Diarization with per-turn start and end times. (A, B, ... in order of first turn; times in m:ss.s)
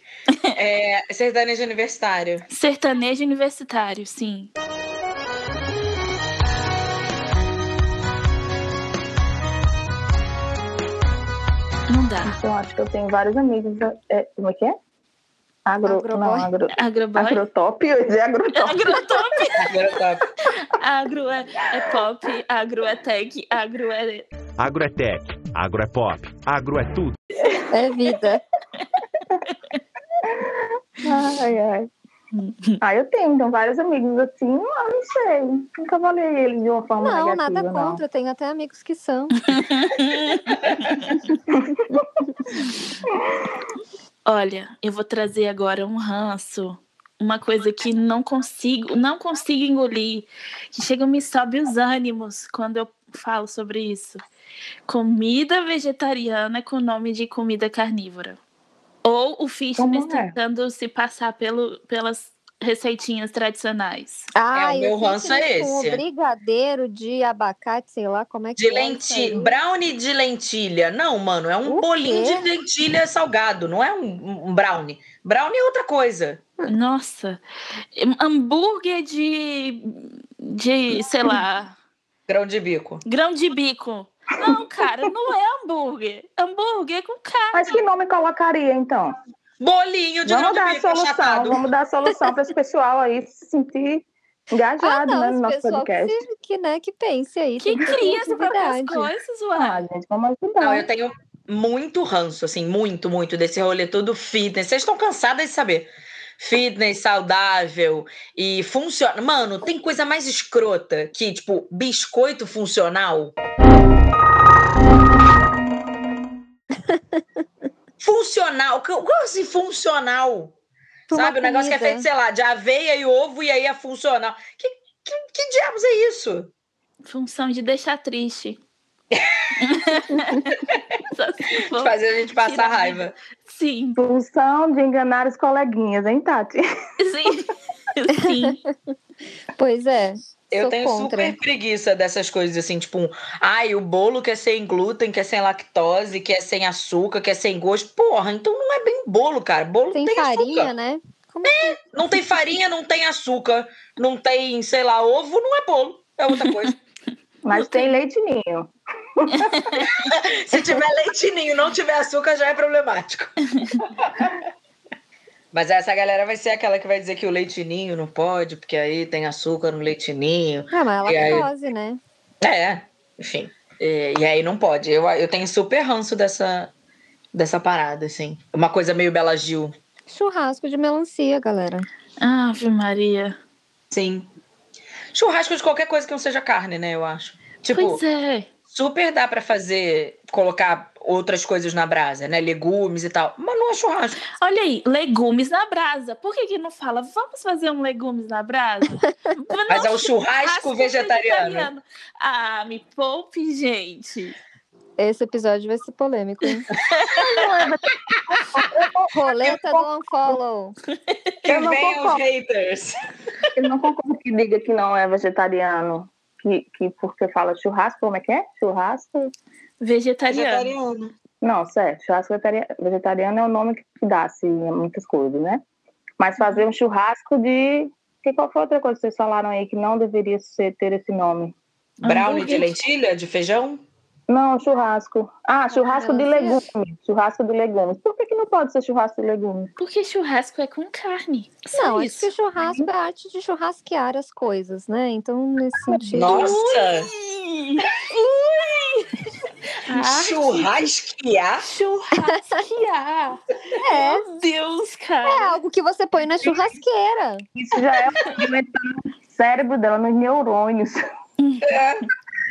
0:00.6-0:02.4 A
0:02.5-0:04.5 B
0:11.9-0:12.4 B
0:12.2-0:14.8 C
0:15.7-0:19.0 C
0:15.8-0:16.5 D
0:16.7-0:17.4 B
0:18.6-0:19.8 B
0:19.6-0:20.3 A
0:20.4-0:24.3 B
0:24.6-0:27.2 E
0:27.7-0:28.4 D
0:30.2-0:31.9 C
0:32.3-0:32.8 B
0:32.8-0:38.0 C
0:37.0-0:39.4 D
0:39.5-0:41.2 B
0:41.5-0:42.0 C
0:44.3-0:54.2 B
0:54.9-0:58.4 B
0:59.0-1:04.3 B
0:59.8-1:00.4 C
1:04.4-1:09.6 D
1:04.5-1:06.0 A
1:08.6-1:16.4 A
1:11.6-1:12.4 D
1:16.7-1:17.4 B
1:18.0-1:21.8 B
1:22.3-1:23.0 A
1:23.1-1:27.8 B
1:27.5-1:29.1 C
1:29.6-1:31.6 A
1:30.3-1:36.2 C
1:34.8-1:39.1 D
1:37.6-1:39.8 B
1:39.6-1:40.9 C
1:40.6-1:53.4 A
1:58.0-2:00.5 A
2:01.1-2:02.1 D
2:01.1-2:06.5 A
2:07.1-2:08.6 B
2:09.1-2:09.4 A
2:09.6-2:14.0 B
2:11.7-2:13.2 A
2:14.0-2:16.6 C
2:17.0-2:18.6 B
2:19.6-2:21.4 D
2:20.5-2:30.7 A
2:29.9-2:31.8 D
2:31.5-2:36.8 A
2:37.4-2:39.8 C
2:37.5-2:38.0 B
2:39.4-2:39.9 B
2:39.9-2:44.4 A
2:45.5-2:51.5 A
2:50.7-2:52.0 D
2:52.4-2:56.7 A
2:57.3-2:59.7 A
3:00.1-3:01.9 D
3:02.2-3:03.4 B
3:03.9-3:04.3 A
3:05.1-3:08.0 A
3:07.7-3:08.5 B
3:08.7-3:14.2 A
3:14.4-3:24.4 B
3:19.7-3:21.7 A
3:25.0-3:26.7 D
3:26.9-3:27.4 B
3:27.2-3:27.8 C
3:28.3-3:29.0 C
3:29.1-3:30.8 D
3:31.4-3:33.0 A
3:31.5-3:32.2 C
3:33.6-3:39.3 C
3:39.8-3:40.7 B
3:40.3-3:41.1 A
3:41.4-3:45.6 C
3:46.2-3:51.6 C
3:52.0-3:52.8 B
3:52.0-3:53.8 A
3:54.3-3:59.7 C
3:55.7-3:56.6 D
3:59.8-4:02.3 B
4:01.7-4:06.5 D
4:02.6-4:02.9 C
4:06.0-4:06.3 C
4:06.1-4:07.1 A
4:06.2-4:09.2 B
4:09.8-4:10.7 B
4:09.9-4:11.7 A
4:11.6-4:15.6 B
4:13.8-4:14.3 D
4:15.2-4:17.4 D
4:17.6-4:21.0 C
4:21.4-4:21.8 B
4:21.6-4:22.0 A